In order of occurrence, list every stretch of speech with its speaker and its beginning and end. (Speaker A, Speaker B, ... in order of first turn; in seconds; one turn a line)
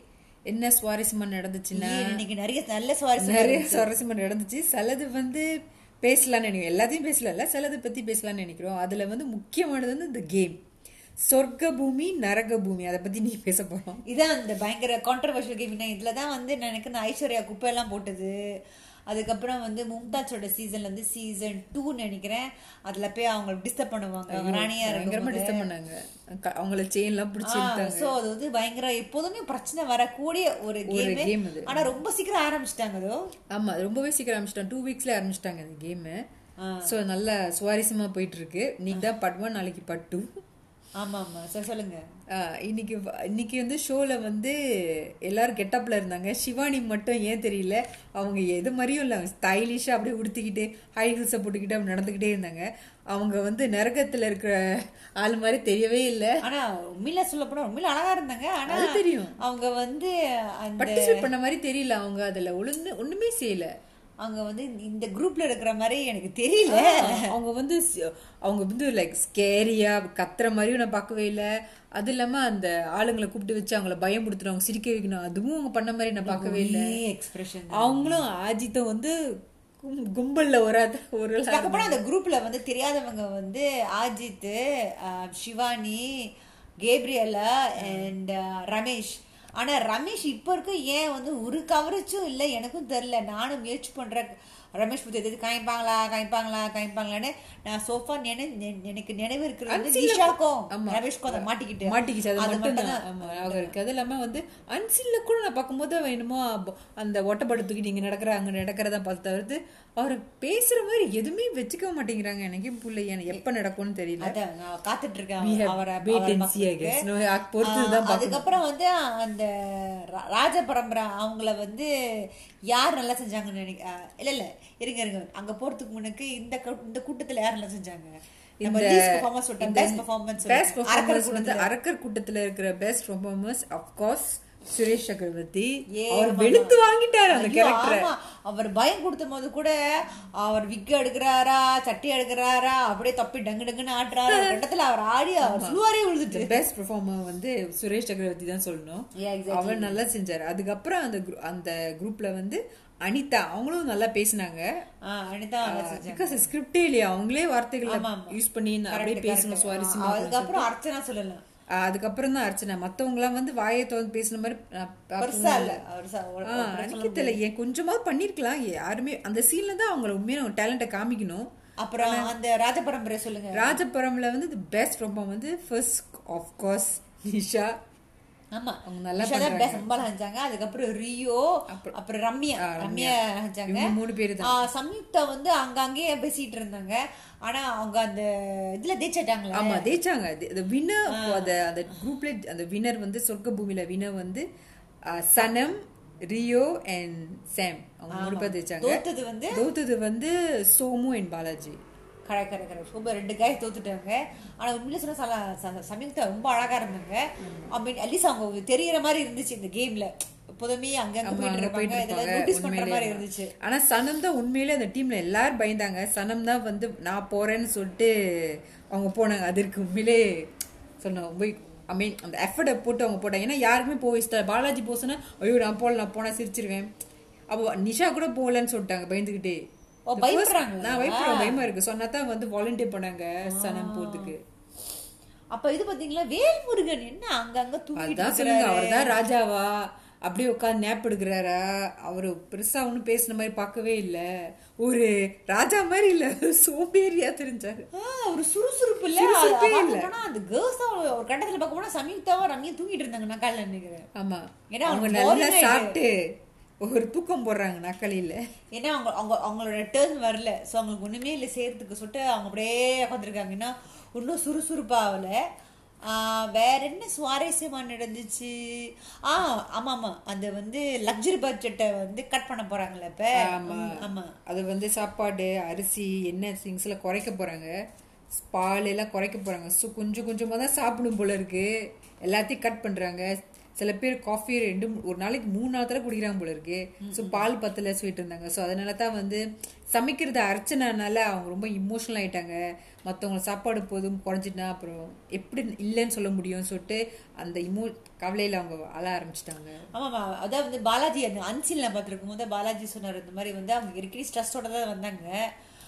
Speaker A: 0.5-2.2
Speaker B: 1.7-3.9
Speaker A: 3.2-5.5
Speaker A: 6.0-10.6
Speaker A: 11.2-14.0
Speaker B: 14.1-18.4
Speaker B: 19.1-25.7
Speaker A: 24.3-28.1
Speaker B: 27.4-33.2
Speaker A: 30.9-31.9
Speaker A: 33.5-36.2
Speaker B: 36.6-36.9
Speaker A: 36.9-40.3
Speaker B: 41.0-42.0
Speaker A: 42.3-56.4
Speaker B: 56.4-61.3
Speaker A: 58.7-59.4
Speaker A: 60.8-63.7
Speaker B: 64.2-67.3
Speaker A: 66.7-76.8
Speaker B: 76.2-78.2
Speaker A: 77.7-79.1
Speaker A: 79.8-82.0
Speaker B: 81.5-86.3
Speaker B: 86.8-103.7
Speaker A: 87.8-88.1
Speaker A: 99.7-114.3
Speaker B: 114.2-117.0
Speaker A: 115.4-118.5
Speaker B: 117.6-121.9
Speaker B: 122.7-128.1
Speaker A: 128.6-129.0
Speaker B: 128.6-131.7
Speaker A: 129.6-138.1
Speaker B: 135.9-136.8
Speaker B: 137.3-139.7
Speaker B: 140.4-146.6
Speaker A: 144.3-144.6
Speaker A: 145.4-154.7
Speaker B: 149.2-150.0
Speaker B: 155.1-156.5
Speaker A: 155.7-160.7
Speaker B: 157.9-158.4
Speaker B: 158.9-161.4
Speaker A: 161.8-165.8
Speaker B: 165.2-167.4
Speaker A: 166.5-172.3
Speaker B: 171.8-173.8
Speaker A: 173.6-177.7
Speaker B: 178.5-183.9
Speaker A: 178.9-179.9
Speaker A: 182.6-183.2
Speaker A: 183.7-184.5
Speaker B: 184.4-189.9
Speaker A: 189.5-194.4
Speaker B: 191.1-191.6
Speaker A: 195.1-199.0
Speaker B: 198.1-199.6
Speaker A: 199.6-201.8
Speaker B: 202.3-213.5
Speaker A: 207.4-207.7
Speaker A: 211.2-220.3
Speaker A: 221.0-226.9
Speaker A: 227.5-229.6
Speaker B: 230.1-231.6
Speaker A: 230.2-234.4
Speaker B: 233.5-234.3
Speaker B: 235.5-239.1
Speaker A: 238.0-244.3
Speaker A: 244.8-247.9
Speaker B: 247.9-254.1
Speaker A: 249.2-250.1
Speaker A: 254.2-256.2
Speaker B: 254.7-255.9
Speaker A: 256.8-258.4
Speaker B: 258.8-265.4
Speaker B: 266.1-274.3
Speaker A: 273.4-277.7
Speaker A: 278.4-281.7
Speaker A: 282.3-283.3
Speaker A: 283.8-289.4
Speaker B: 287.0-287.5
Speaker A: 289.9-299.9
Speaker B: 300.0-305.4